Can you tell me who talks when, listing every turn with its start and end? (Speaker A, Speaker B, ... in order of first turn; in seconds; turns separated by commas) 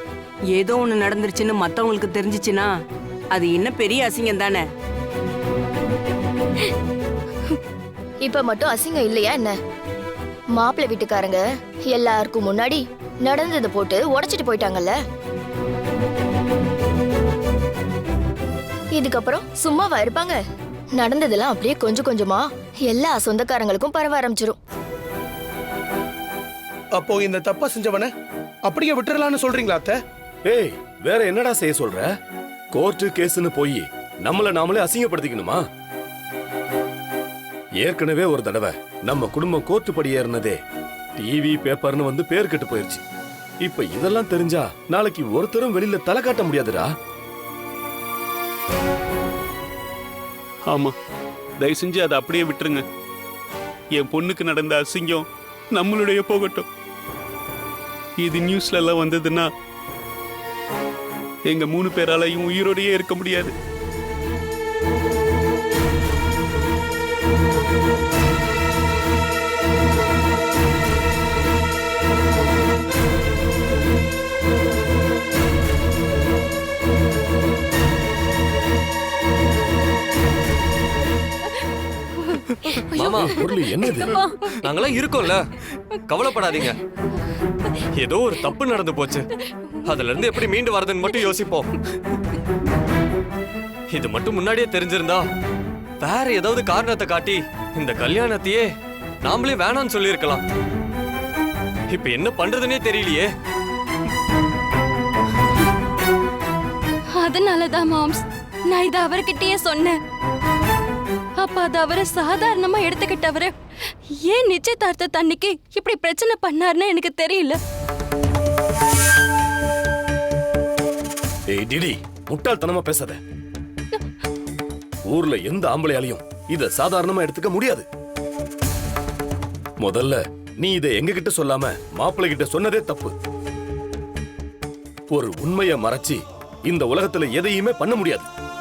Speaker A: 0.5-2.7, Speaker A: 3.3-4.7, Speaker B: 8.2-9.6, Speaker B: 10.6-15.0, Speaker B: 18.9-20.4, Speaker B: 21.0-24.6, Speaker C: 27.0-28.1, Speaker C: 28.7-30.0, Speaker D: 30.5-32.1, Speaker D: 32.7-35.6, Speaker D: 37.8-40.6, Speaker D: 41.2-43.0, Speaker D: 43.6-46.9, Speaker E: 50.7-51.0, Speaker E: 51.6-52.8, Speaker E: 53.9-56.7, Speaker E: 58.2-59.5, Speaker E: 61.5-63.5, Speaker F: 82.2-84.6, Speaker G: 83.0-83.4, Speaker D: 83.0-84.2, Speaker G: 84.6-85.5, Speaker G: 86.1-86.8, Speaker G: 88.0-89.3, Speaker G: 89.8-91.7, Speaker G: 93.9-95.3, Speaker G: 96.0-98.7, Speaker G: 99.2-100.5, Speaker G: 101.9-103.3, Speaker F: 107.2-110.0, Speaker F: 111.4-113.5, Speaker F: 114.2-117.6, Speaker D: 121.5-123.2, Speaker D: 125.1-127.9, Speaker D: 129.8-133.1, Speaker D: 135.1-138.3